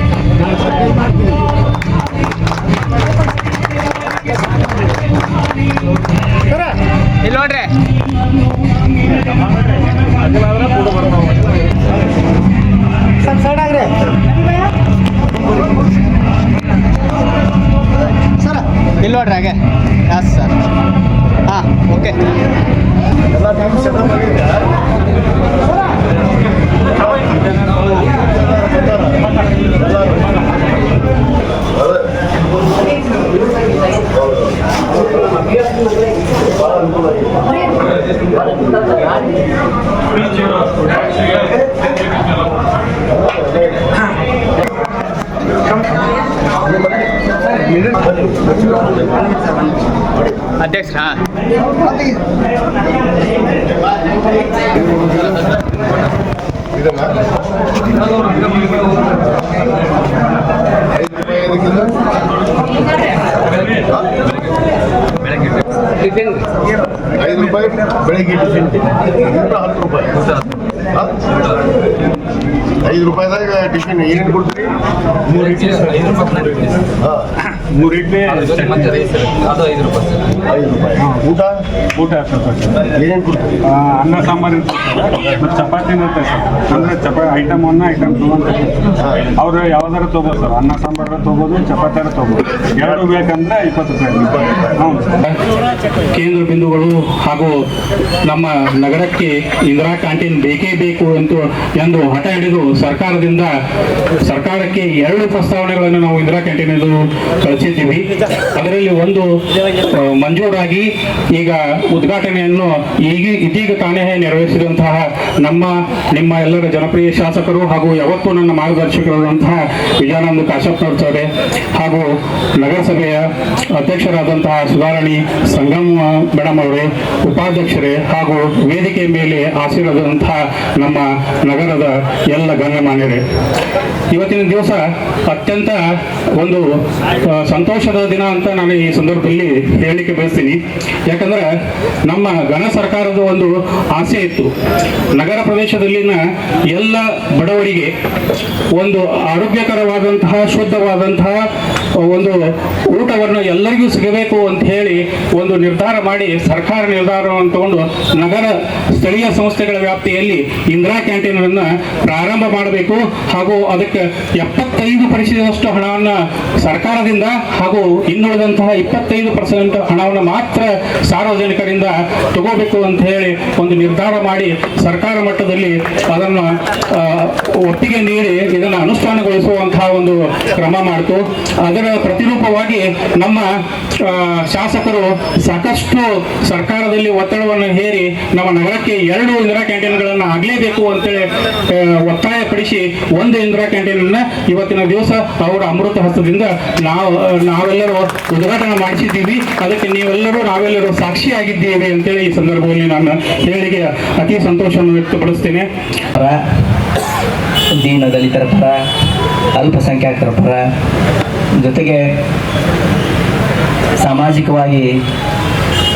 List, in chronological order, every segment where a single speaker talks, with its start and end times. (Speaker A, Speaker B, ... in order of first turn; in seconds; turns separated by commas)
Speaker A: 7.2-7.7, Speaker A: 13.5-13.8, Speaker A: 18.4-20.5, Speaker A: 21.5-22.2, Speaker B: 23.5-24.5, Speaker A: 50.6-51.2, Speaker B: 61.0-61.9, Speaker C: 65.4-66.1, Speaker B: 67.2-70.2, Speaker B: 72.8-74.7, Speaker C: 75.3-76.8, Speaker D: 77.5-79.4, Speaker C: 79.2-80.3, Speaker B: 80.4-81.6, Speaker D: 82.0-82.9, Speaker B: 83.0-83.6, Speaker D: 83.6-95.1, Speaker E: 96.1-97.5, Speaker E: 98.2-103.5, Speaker E: 104.2-108.1, Speaker E: 108.6-109.2, Speaker E: 109.9-123.2, Speaker E: 123.8-133.2, Speaker E: 134.1-135.8, Speaker E: 136.4-136.6, Speaker E: 137.2-140.6, Speaker E: 141.1-141.5, Speaker E: 142.1-144.5, Speaker E: 145.1-146.2, Speaker E: 146.7-147.9, Speaker E: 148.8-151.4, Speaker E: 152.0-152.4, Speaker E: 152.9-183.5, Speaker E: 184.0-205.7, Speaker F: 207.8-208.8, Speaker F: 209.6-210.6, Speaker F: 211.6-212.0, Speaker F: 214.0-214.9